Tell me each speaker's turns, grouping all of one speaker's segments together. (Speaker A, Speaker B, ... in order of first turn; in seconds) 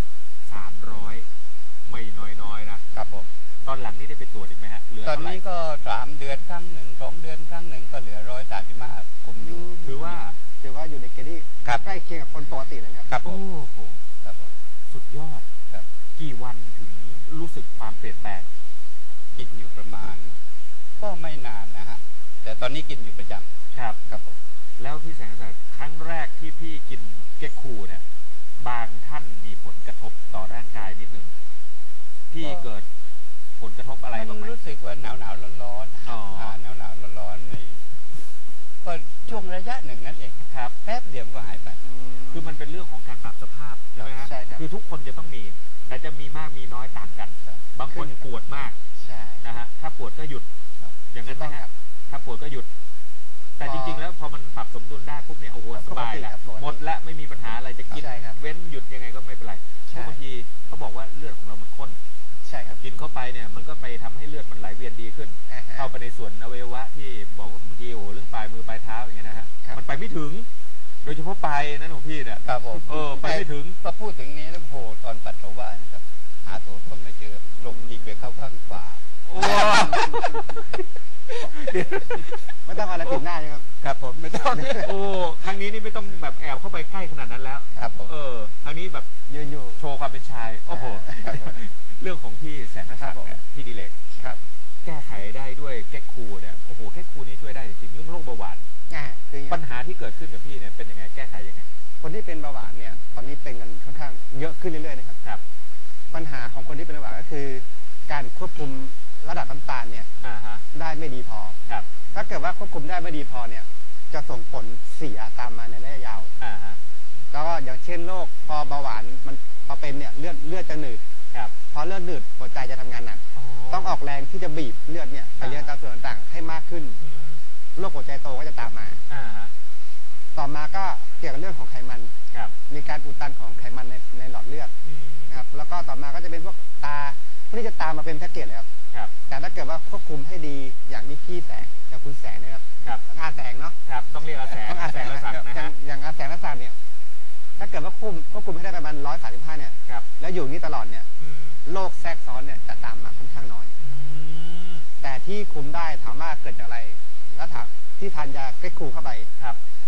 Speaker A: 0.5-1.3, 1.9-2.8, 3.6-5.4, 9.8-10.4, 13.2-14.0, 14.9-15.7, 16.2-18.5, 23.7-24.0, 24.8-28.0, 28.6-31.3, 32.3-32.9, 33.6-34.5, 36.1-36.6, 40.5-40.8, 42.3-48.8, 49.4-50.5, 51.1-52.7, 53.6-62.0, 62.8-70.5, 71.0-73.8, 79.3-80.8, 81.4-83.2, 84.5-89.1, 89.8-93.9, 94.8-98.7, 99.5-101.7, 110.2-110.6, 116.4-116.8, 123.3-124.0, 125.4-125.7, 127.0-127.4, 129.1-129.5, 134.8-135.3, 143.8-145.7, 151.2-151.6, 153.8-154.9
Speaker B: 2.9-3.3, 5.0-10.2, 13.1-13.4, 14.2-14.5, 19.4-20.4, 21.0-23.5, 24.1-24.4, 32.4-32.7, 33.9-37.8, 38.8-41.8, 72.5-79.7, 83.9-84.8, 87.8-88.1
Speaker C: 9.4-9.8, 10.6-13.1, 41.8-42.6, 44.0-44.6, 47.9-48.2, 49.0-49.4, 51.2-51.7, 53.6-54.0, 55.7-56.8, 58.0-58.4, 59.9-60.2, 62.4-62.8, 65.5-65.9, 77.6-78.0, 79.4-80.4, 82.7-83.8, 84.5-84.9, 89.3-89.8, 90.7-91.5, 93.0-93.4, 98.9-99.6, 102.0-105.2, 106.1-110.1, 110.7-111.6, 112.1-116.3, 117.3-121.0, 121.7-127.0, 127.8-129.0, 130.3-132.1, 132.7-134.7, 135.3-138.7, 139.3-143.8, 144.5-146.8, 147.6-151.1, 151.7-153.7, 155.0-159.3